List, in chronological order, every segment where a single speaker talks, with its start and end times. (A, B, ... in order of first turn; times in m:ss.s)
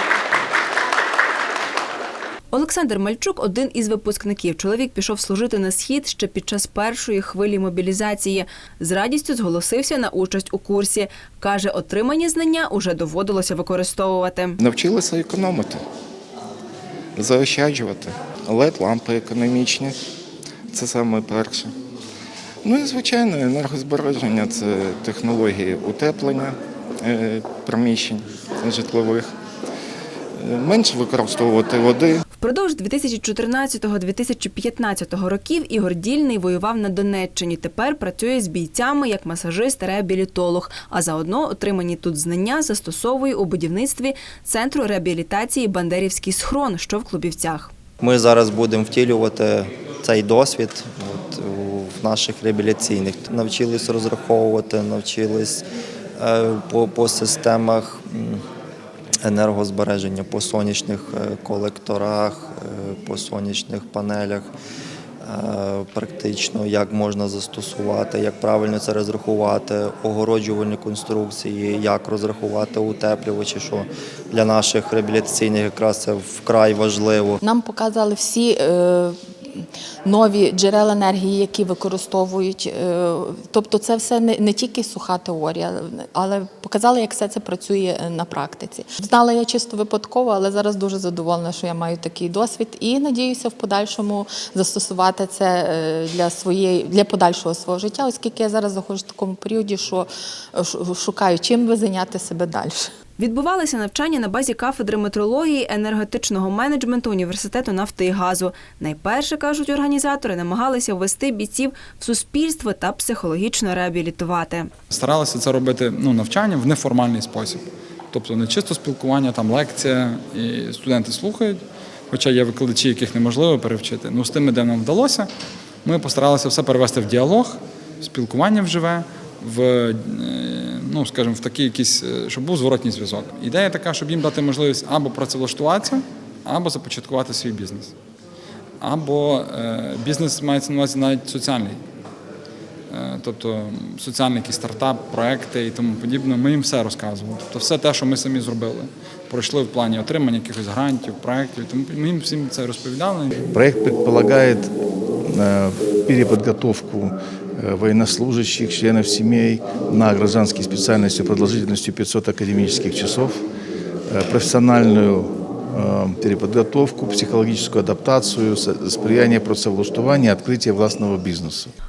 0:02.5-0:14.6 A
0:14.6-0:15.8 B
0:17.2-0:20.0 B
0:20.7-0:21.7 B
0:22.6-0:29.3 B
0:30.4-0:32.2 B
0:32.4-0:47.7 A
0:48.0-0:55.6 C
0:56.2-0:58.4 C
0:59.2-1:04.5 C
1:05.2-1:17.4 C
1:17.4-1:42.9 D
1:43.2-1:54.7 A
1:54.9-2:05.3 E
2:05.8-2:17.9 E
2:18.8-2:21.8 E
2:22.9-2:33.3 E
2:33.5-2:34.7 F
2:35.3-2:43.4 F
2:44.1-2:51.7 F